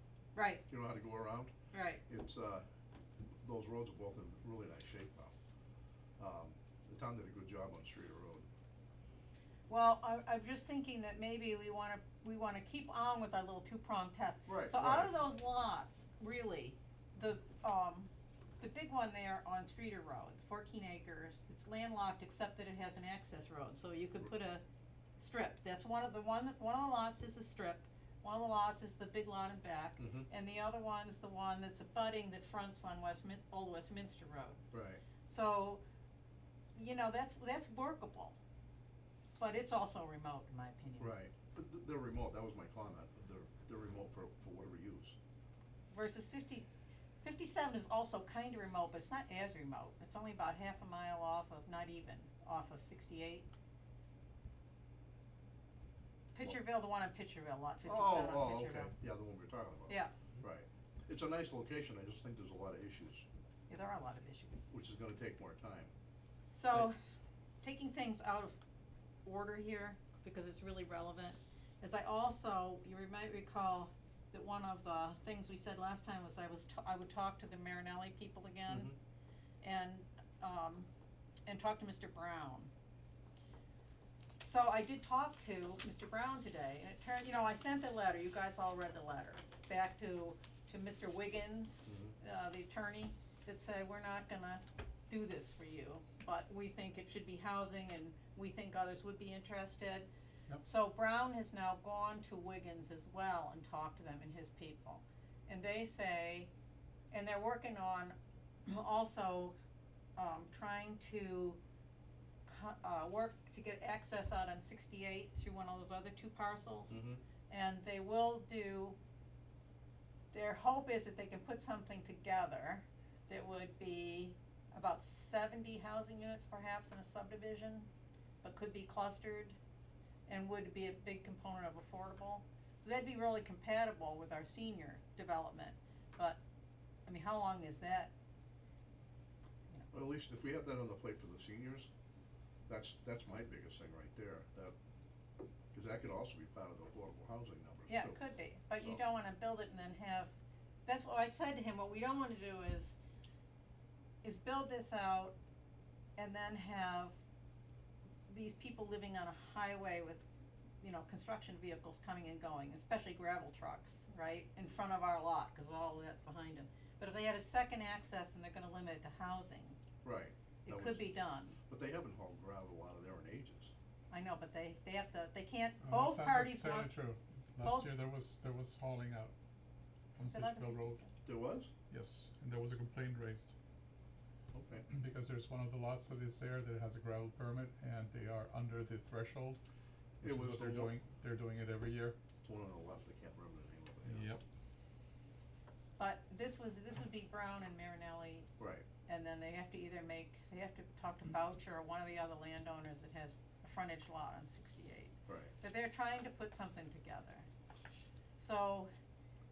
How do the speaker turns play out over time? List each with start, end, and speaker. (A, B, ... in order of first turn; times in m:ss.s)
0:00.3-0:00.6 A
0:00.7-0:01.5 B
0:01.7-0:02.0 A
0:02.1-0:02.7 B
0:03.4-0:05.3 B
0:06.2-0:08.5 B
0:09.7-0:24.6 A
0:14.5-0:15.2 B
0:25.2-0:34.6 A
0:30.0-0:30.3 B
0:34.7-0:35.0 B
0:35.2-0:35.8 A
0:36.8-0:38.4 A
0:39.4-0:41.1 A
0:41.0-0:45.2 B
0:45.9-0:46.7 A
0:47.2-0:53.5 A
0:56.3-0:58.9 A
0:57.8-1:03.2 B
1:03.7-1:04.7 A
1:04.7-1:05.9 B
1:06.5-1:07.0 A
1:07.6-1:08.6 A
1:09.2-1:18.9 A
1:18.7-1:19.0 B
1:19.6-1:20.9 A
1:21.5-1:22.7 A
1:24.4-1:40.1 A
1:31.9-1:32.2 B
1:40.6-1:46.5 A
1:47.1-1:48.2 A
1:48.7-1:49.6 A
1:50.2-1:51.6 A
1:52.5-1:59.0 A
1:56.9-1:57.2 B
2:00.3-2:07.9 A
2:08.4-2:09.6 A
2:10.3-2:16.4 A
2:17.1-2:18.1 A
2:19.9-2:21.9 B
2:22.7-2:24.8 B
2:25.7-2:28.2 B
2:27.9-2:30.3 A
2:30.9-2:33.0 A
2:34.2-2:35.4 A
2:36.2-2:37.2 A
2:38.3-2:40.2 A
2:40.8-2:49.8 A
2:50.0-2:51.1 B
2:50.6-2:51.6 A
2:51.6-2:53.7 B
2:54.1-2:56.9 A
2:55.8-2:59.3 C
2:57.6-2:57.9 A
3:00.2-3:01.0 C
3:00.3-3:01.1 A
3:01.2-3:01.7 B
3:01.9-3:03.6 C
3:04.5-3:04.9 B
3:04.9-3:09.6 C
3:10.2-3:12.2 C
3:10.2-3:10.9 B
3:12.4-3:14.3 B
3:14.1-3:14.4 C
3:16.0-3:18.5 A
3:18.6-3:18.8 B
3:19.1-3:27.5 A
3:25.3-3:25.5 B
3:28.4-3:28.9 A